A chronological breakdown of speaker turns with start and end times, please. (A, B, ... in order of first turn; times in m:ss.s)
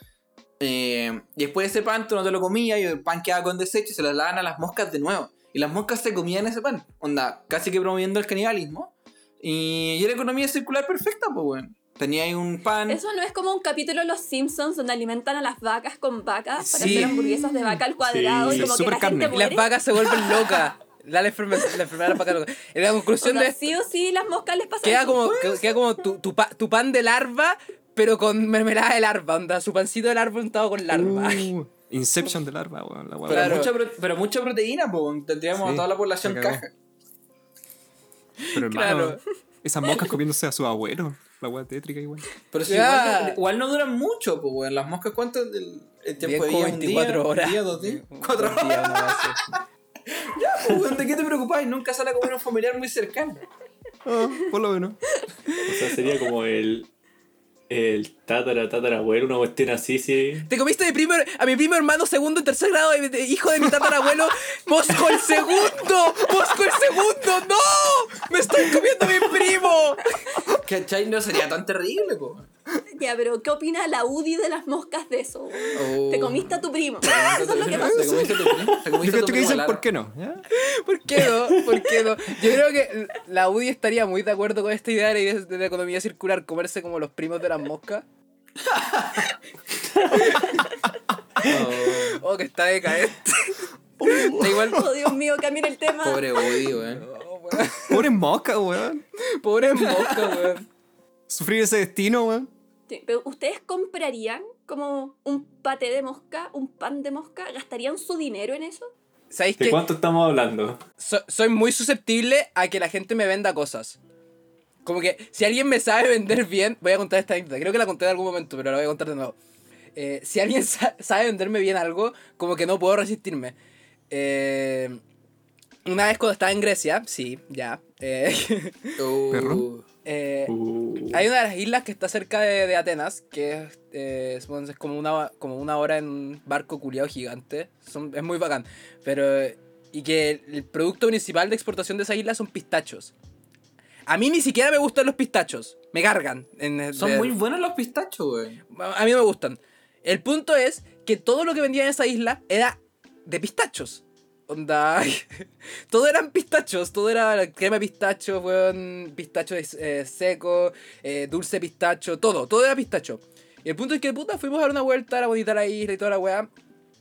0:00.6-0:13.0 A
0:12.9-0:20.4 B
0:16.6-0:17.8 C
0:16.7-0:17.2 D
0:18.1-0:18.7 E
0:18.4-0:19.4 C
0:19.3-0:23.7 D
0:23.2-0:25.5 B
0:24.8-0:31.5 D
0:30.9-0:33.7 C
0:33.3-0:36.7 A
0:33.3-0:33.7 D
0:35.6-0:36.6 C
0:38.4-0:39.2 D
0:38.5-0:42.3 C
0:42.5-0:49.4 A
0:42.7-0:43.4 D
0:46.2-0:49.4 D
0:50.2-0:53.4 A
0:54.0-0:55.0 C
0:55.6-0:56.9 E
0:57.7-1:00.5 E
1:00.5-1:10.4 D
1:10.5-1:12.5 A
1:12.9-1:18.4 B
1:15.7-1:19.8 A
1:17.9-1:20.4 C
1:20.5-1:28.0 D
1:21.5-1:21.7 E
1:28.6-1:29.3 A
1:30.1-1:30.5 D
1:31.4-1:32.2 A
1:31.5-1:33.6 D
1:34.0-1:34.9 C
1:34.1-1:34.8 D
1:34.5-1:36.7 B
1:36.0-1:37.1 A
1:36.9-1:38.1 D
1:37.9-1:39.0 C
1:39.4-1:40.7 D
1:40.0-1:40.3 A
1:41.3-1:42.5 C
1:42.9-1:48.9 B
1:49.3-1:49.8 D
1:49.6-1:50.8 E
1:51.0-1:54.0 D
1:54.8-1:59.4 D
2:00.0-2:03.6 D
2:04.1-2:05.0 D
2:05.8-2:09.0 D
2:09.0-2:09.8 A
2:09.3-2:09.7 C
2:10.0-2:10.5 D
2:10.5-2:11.3 E
2:11.1-2:23.1 D
2:24.1-2:27.4 D
2:26.9-2:28.6 A
2:28.7-2:46.5 D